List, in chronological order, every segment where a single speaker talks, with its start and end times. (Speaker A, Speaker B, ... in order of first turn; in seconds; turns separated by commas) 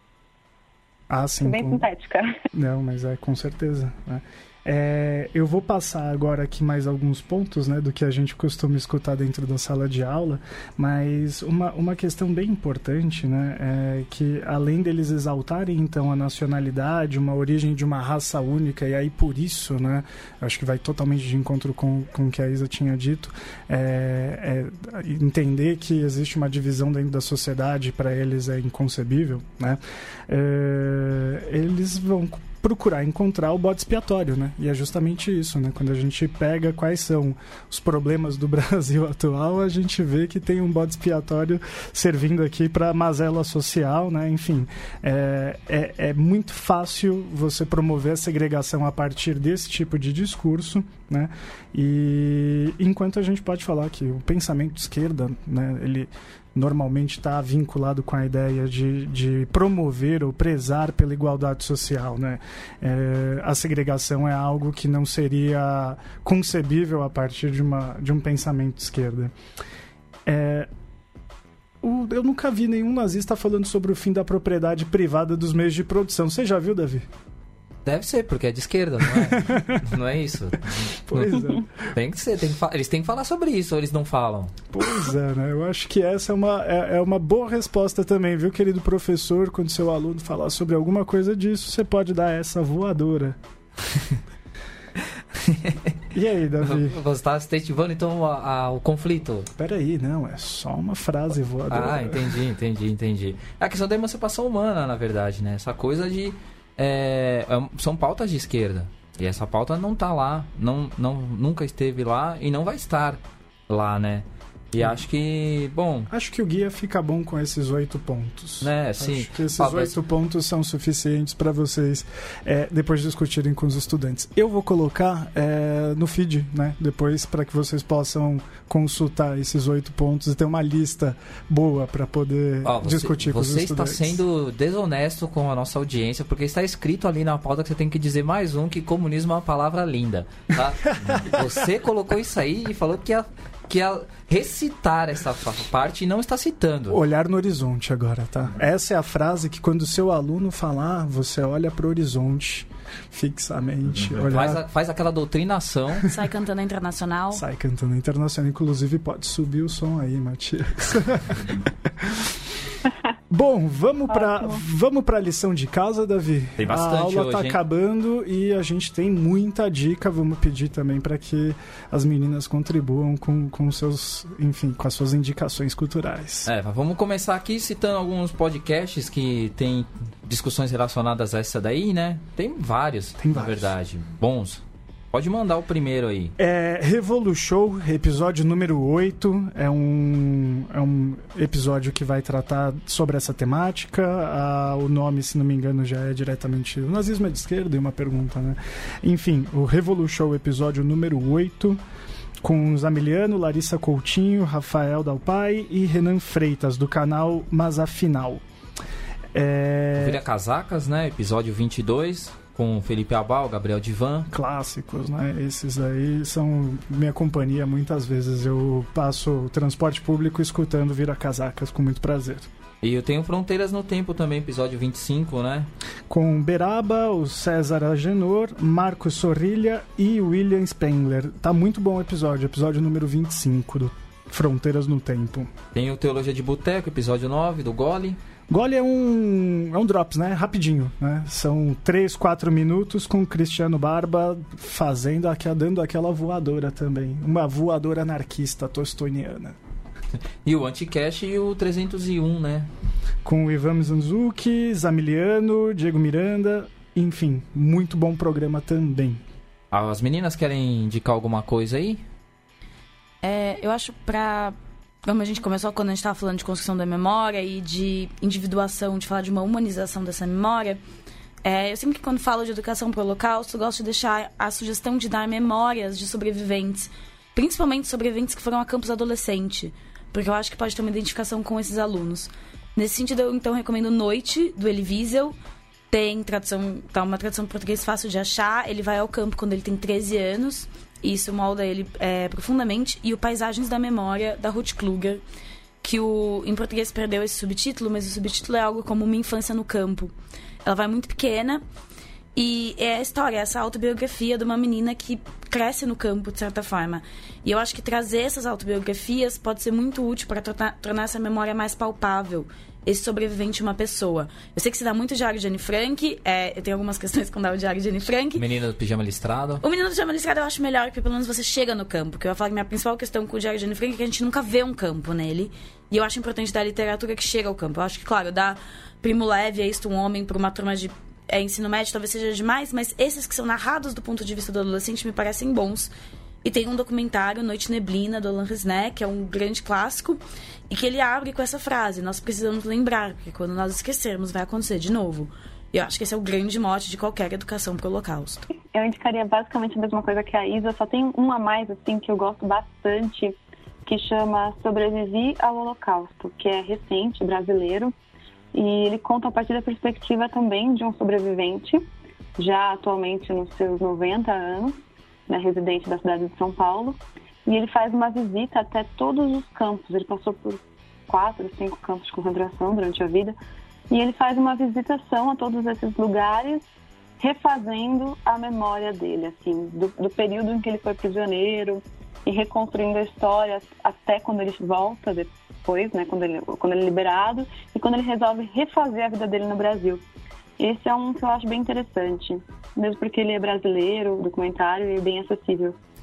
Speaker A: 1.1-1.9, Speaker B: 1.4-2.4, Speaker A: 2.5-69.3, Speaker A: 70.2-70.7, Speaker A: 71.8-77.1, Speaker C: 77.8-84.5, Speaker A: 81.1-81.7, Speaker A: 84.7-93.4, Speaker C: 95.3-95.9, Speaker A: 96.1-97.0, Speaker C: 96.6-99.5, Speaker A: 99.6-102.3, Speaker C: 101.7-116.1, Speaker A: 116.1-134.2, Speaker C: 118.6-119.9, Speaker C: 132.6-147.0, Speaker A: 141.1-141.4, Speaker A: 146.9-154.6, Speaker C: 154.2-156.2, Speaker D: 156.0-157.4, Speaker A: 157.3-162.3, Speaker A: 163.3-176.5, Speaker B: 164.1-164.6, Speaker C: 166.6-167.6, Speaker C: 176.4-186.3, Speaker A: 183.2-183.7, Speaker A: 186.4-201.8, Speaker A: 202.4-208.4, Speaker A: 209.3-210.2, Speaker C: 210.0-214.3, Speaker A: 214.3-222.5, Speaker C: 222.8-225.7, Speaker A: 226.1-235.5, Speaker C: 235.7-238.2, Speaker A: 238.5-249.6, Speaker C: 250.4-252.7, Speaker A: 253.2-259.2, Speaker C: 259.7-262.0, Speaker D: 263.2-270.8, Speaker D: 271.4-285.4, Speaker D: 285.9-295.2, Speaker D: 295.8-300.1, Speaker D: 300.6-301.6, Speaker D: 302.3-318.4, Speaker C: 318.3-319.6, Speaker D: 319.6-335.9, Speaker D: 336.4-348.5, Speaker B: 348.7-357.9, Speaker B: 358.5-361.9, Speaker B: 362.4-364.8, Speaker B: 365.3-373.4, Speaker B: 373.9-376.6, Speaker B: 377.2-390.0, Speaker B: 390.6-395.8